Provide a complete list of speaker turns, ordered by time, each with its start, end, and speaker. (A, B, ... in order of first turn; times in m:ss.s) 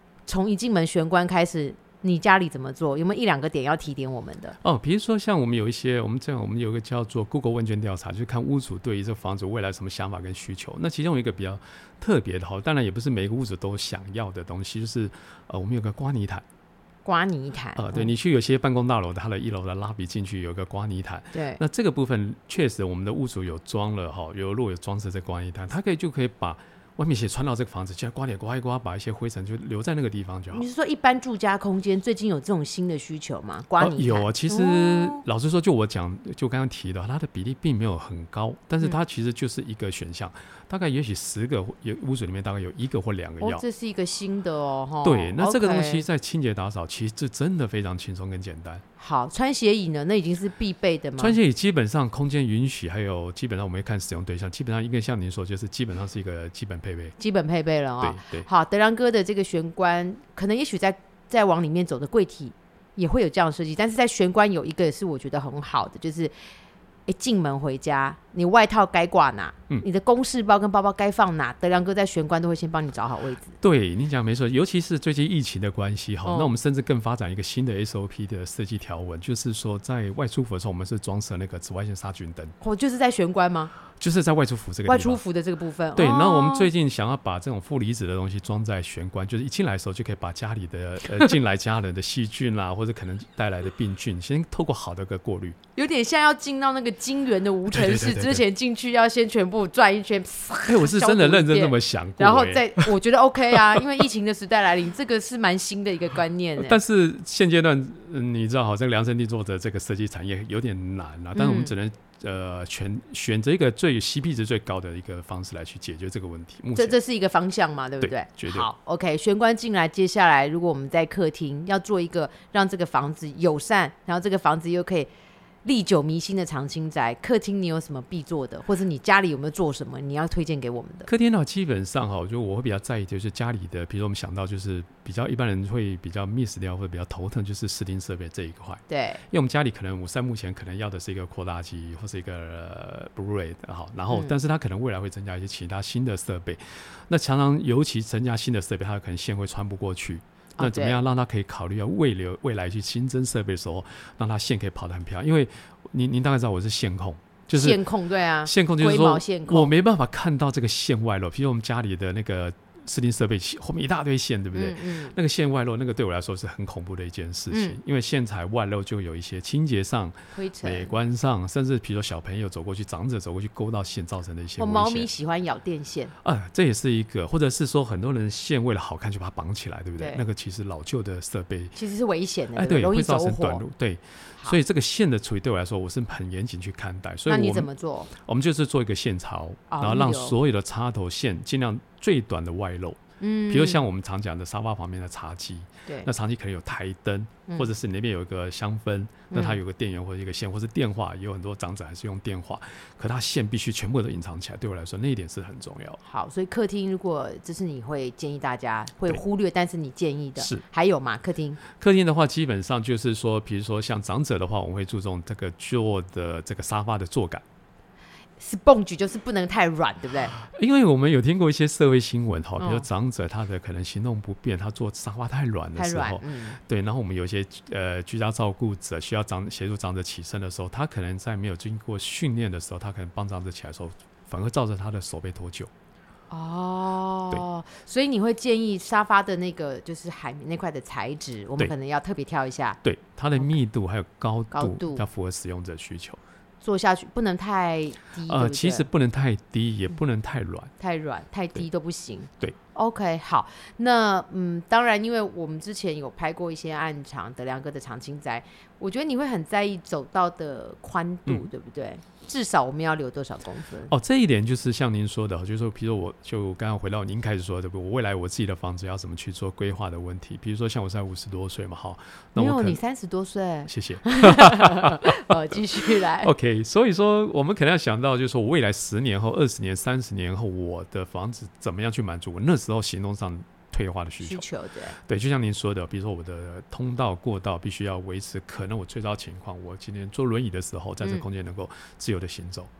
0:00.3-0:04.6 A
0:04.6-0:16.4 B
0:17.0-0:18.1 A
0:17.8-0:30.6 B
0:21.3-0:21.6 A
0:30.5-0:35.2 A
0:33.8-0:43.6 B
0:43.4-0:46.0 A
0:45.0-0:48.8 B
0:49.0-0:51.4 A
0:51.2-0:57.2 B
0:57.2-1:06.3 A
0:58.0-0:58.5 B
1:07.1-1:13.6 A
1:13.6-1:22.5 B
1:16.2-1:16.5 A
1:22.6-1:23.7 A
1:24.0-1:25.2 B
1:24.8-1:26.7 A
1:26.0-1:35.6 B
1:35.8-1:46.8 A
1:37.7-1:38.4 B
1:40.7-1:42.9 B
1:46.6-1:57.0 B
1:51.3-1:51.7 A
1:56.8-2:05.1 A
1:58.0-1:58.7 B
2:05.6-2:11.1 A
2:11.1-2:37.8 B
2:18.9-2:19.2 A
2:24.1-2:24.4 A
2:30.6-2:31.0 A
2:37.5-2:39.7 A
2:38.4-2:55.1 B
2:44.5-2:45.2 A
2:47.5-2:47.8 A
2:50.3-2:50.9 A
2:54.6-2:56.1 A
2:56.2-3:01.8 B
3:01.7-3:03.6 A
3:02.5-3:13.0 B
3:07.3-3:08.1 A
3:09.7-3:10.4 A
3:13.2-3:13.8 A
3:13.5-3:26.0 B
3:19.3-3:19.6 A
3:26.0-3:31.6 A
3:30.4-3:30.6 B
3:31.7-3:37.4 B
3:38.4-3:40.4 A
3:40.3-3:55.7 B
3:42.6-3:42.8 A
3:45.8-3:46.6 A
3:56.3-4:02.8 A
4:02.8-4:06.2 B
4:04.5-4:05.0 A
4:06.6-4:08.8 A
4:08.3-4:10.7 B
4:10.8-4:23.9 A
4:23.9-4:32.8 B
4:32.4-4:36.3 A
4:33.7-4:35.2 B
4:35.9-4:44.4 B
4:44.2-4:45.0 A
4:45.0-4:52.7 B